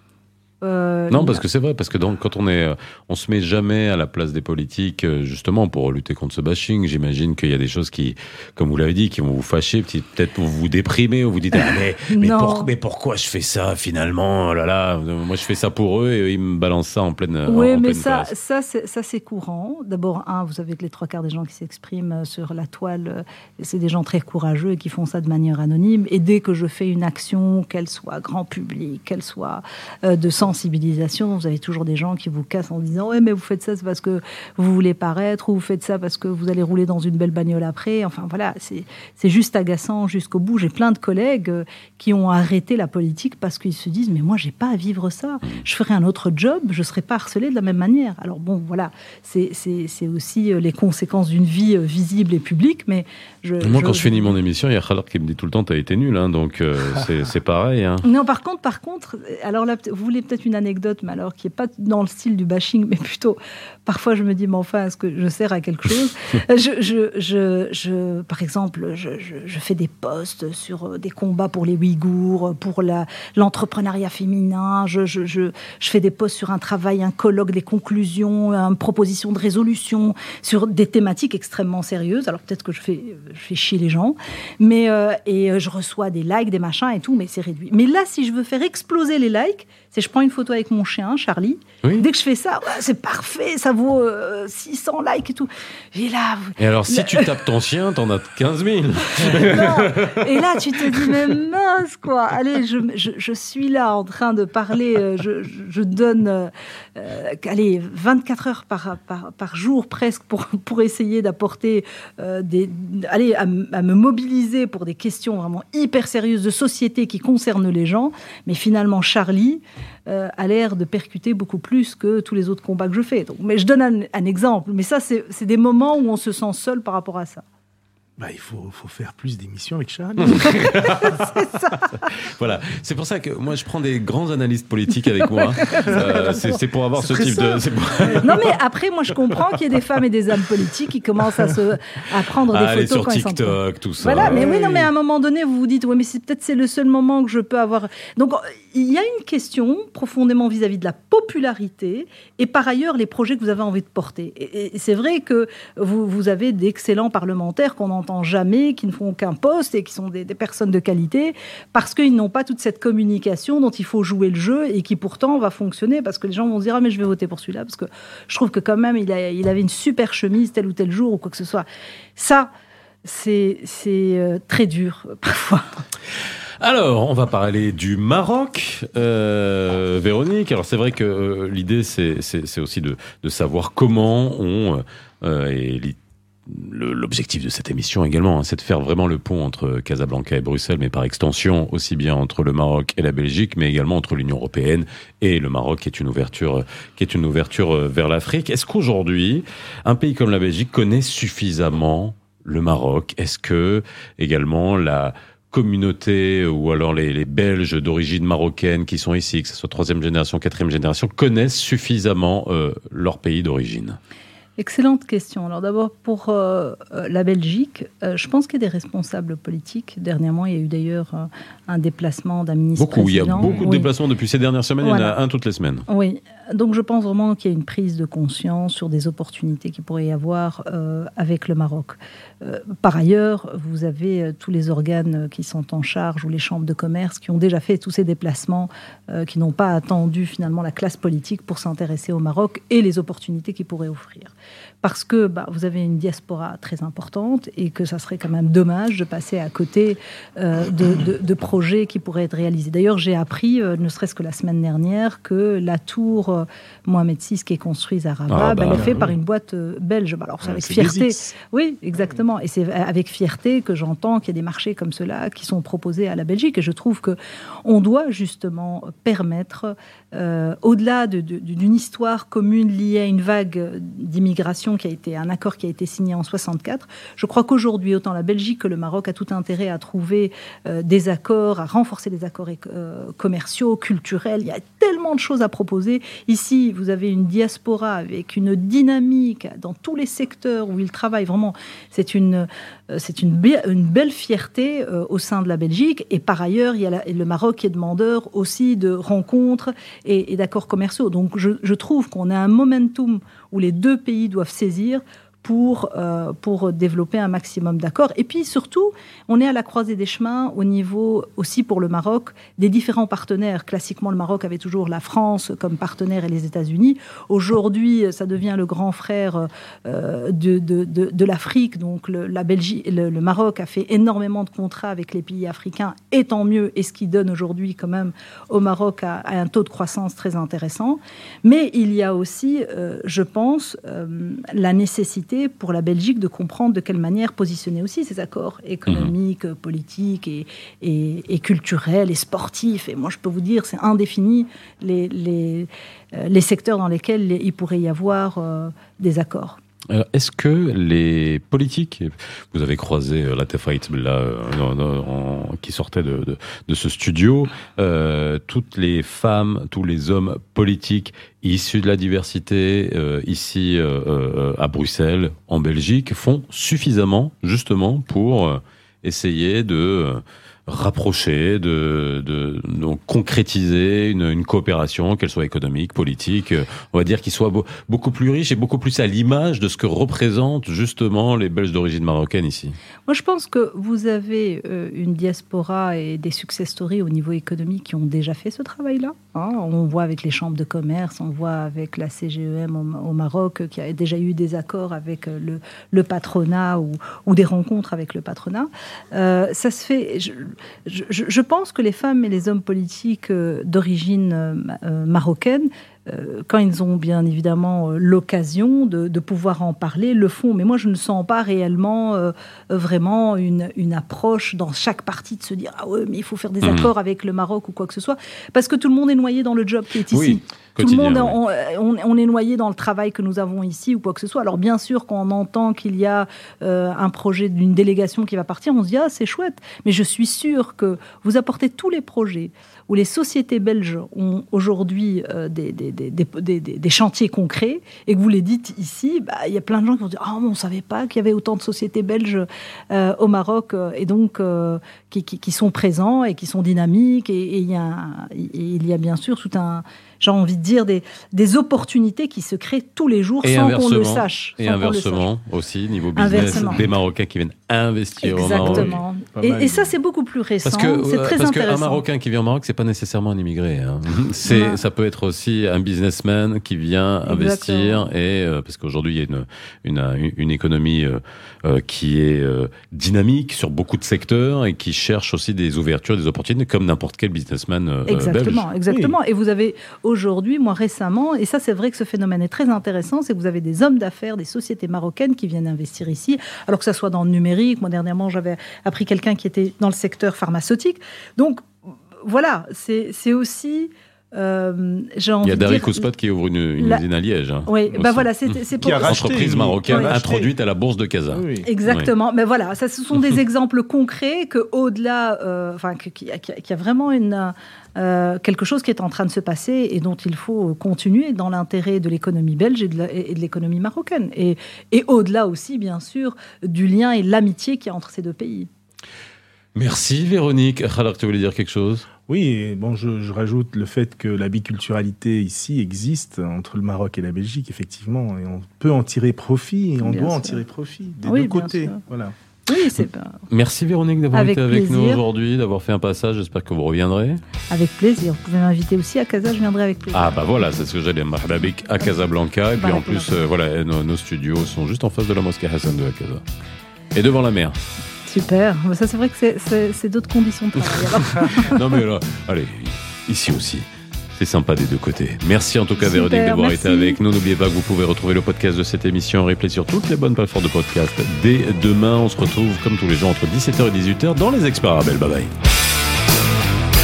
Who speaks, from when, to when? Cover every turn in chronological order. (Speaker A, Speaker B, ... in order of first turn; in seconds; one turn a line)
Speaker A: 0.6-1.4
Speaker B: 1.1-18.3
Speaker A: 11.6-12.7
Speaker A: 17.5-54.4
Speaker B: 53.6-58.0
Speaker A: 58.0-97.3
Speaker B: 96.6-101.3
Speaker A: 99.2-127.4
Speaker C: 128.2-130.8
Speaker B: 130.2-131.2
Speaker A: 130.5-132.1
Speaker B: 132.0-138.5
Speaker A: 135.2-137.6
Speaker C: 135.8-136.3
Speaker A: 138.2-171.7
Speaker B: 142.5-144.4
Speaker C: 144.2-144.9
Speaker A: 172.2-172.5
Speaker A: 173.0-175.7
Speaker B: 176.6-214.0
Speaker A: 214.6-223.9
Speaker B: 222.8-225.8
Speaker A: 224.8-225.2
Speaker A: 225.9-349.6
Speaker B: 258.3-259.1
Speaker C: 258.7-259.1
Speaker C: 260.4-261.3
Speaker B: 349.9-382.8
Speaker A: 383.1-455.3
Speaker B: 416.6-416.9
Speaker B: 420.1-421.4
Speaker B: 453.4-459.0
Speaker A: 456.2-456.8
Speaker A: 458.2-462.0
Speaker C: 458.6-459.9
Speaker B: 460.6-478.7
Speaker A: 464.4-464.8
Speaker A: 467.2-468.1
Speaker A: 478.1-496.1
Speaker C: 478.9-479.1
Speaker B: 495.4-502.1
Speaker A: 496.8-497.0
Speaker A: 497.6-500.2
Speaker C: 498.8-500.5
Speaker C: 501.3-501.7
Speaker A: 501.6-518.7
Speaker B: 519.7-522.1
Speaker C: 522.3-532.3
Speaker A: 530.0-530.6
Speaker A: 531.2-532.0
Speaker A: 532.6-533.4
Speaker B: 533.5-537.4
Speaker A: 534.3-535.2
Speaker A: 537.7-540.3
Speaker B: 540.1-546.4
Speaker A: 542.8-543.3
Speaker B: 547.1-547.8
Speaker A: 548.2-551.9
Speaker B: 551.1-565.5
Speaker A: 556.0-557.2